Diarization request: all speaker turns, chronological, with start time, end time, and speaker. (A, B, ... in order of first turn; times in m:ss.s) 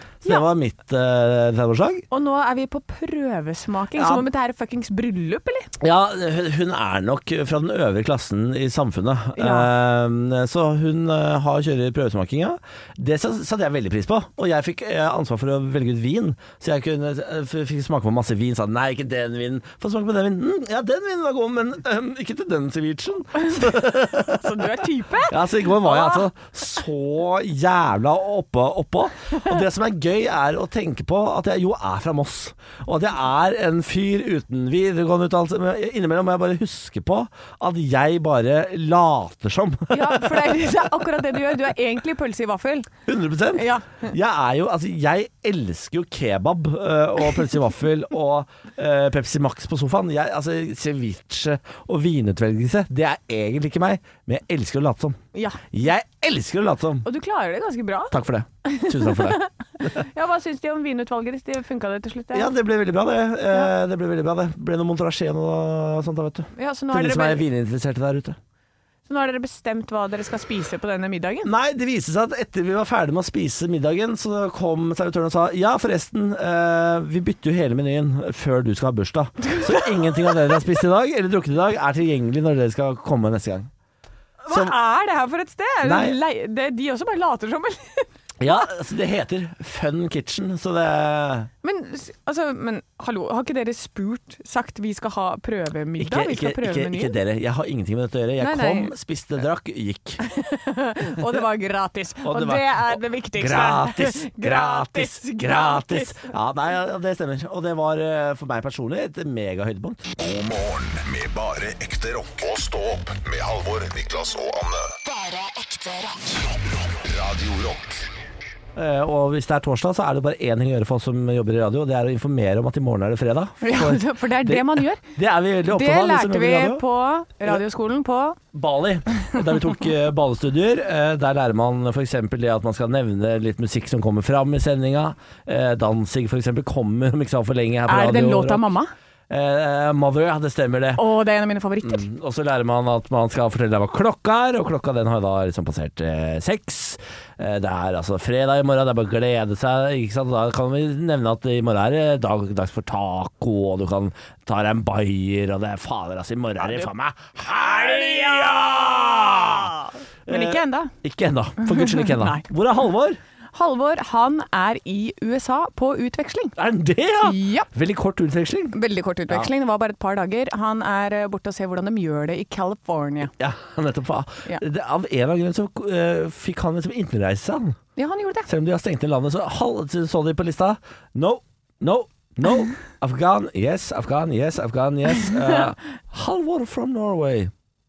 0:00.2-0:02.0 A
0:02.1-0:05.7 B
0:04.0-0:04.2 A
0:05.8-0:24.6 A
0:09.4-0:09.7 B
0:24.2-0:26.3 B
0:25.3-0:40.6 A
0:39.9-0:42.9 B
0:43.0-0:55.2 A
0:43.5-0:44.1 B
0:55.3-0:55.6 B
0:55.7-0:57.0 A
0:57.0-1:02.5 B
0:58.1-1:00.0 A
1:02.3-1:08.4 A
1:06.5-1:07.4 B
1:09.1-1:11.5 B
1:11.4-1:23.7 A
1:19.4-1:20.5 B
1:24.4-1:28.1 B
1:24.5-1:24.8 A
1:25.8-1:26.2 A
1:28.4-1:31.5 A
1:31.6-1:37.2 B
1:36.0-1:40.2 A
1:38.4-1:38.9 B
1:40.2-1:46.3 B
1:42.2-1:50.1 A
1:50.2-1:55.0 C
1:55.7-1:56.2 B
1:56.9-1:58.0 C
1:58.7-2:06.8 A
2:03.6-2:05.0 B
2:05.7-2:08.4 B
2:08.5-2:18.6 A
2:17.9-2:18.9 B
2:19.3-2:21.0 A
2:21.0-2:22.1 B
2:21.8-2:39.7 A
2:36.6-2:36.9 B
2:37.5-2:40.9 B
2:40.3-2:43.2 A
2:41.6-2:42.5 B
2:43.5-2:46.6 B
2:46.6-2:48.8 A
2:47.2-2:47.7 B
2:48.7-2:53.3 B
2:53.4-2:57.8 A
2:58.0-2:58.5 B
2:58.4-3:07.5 A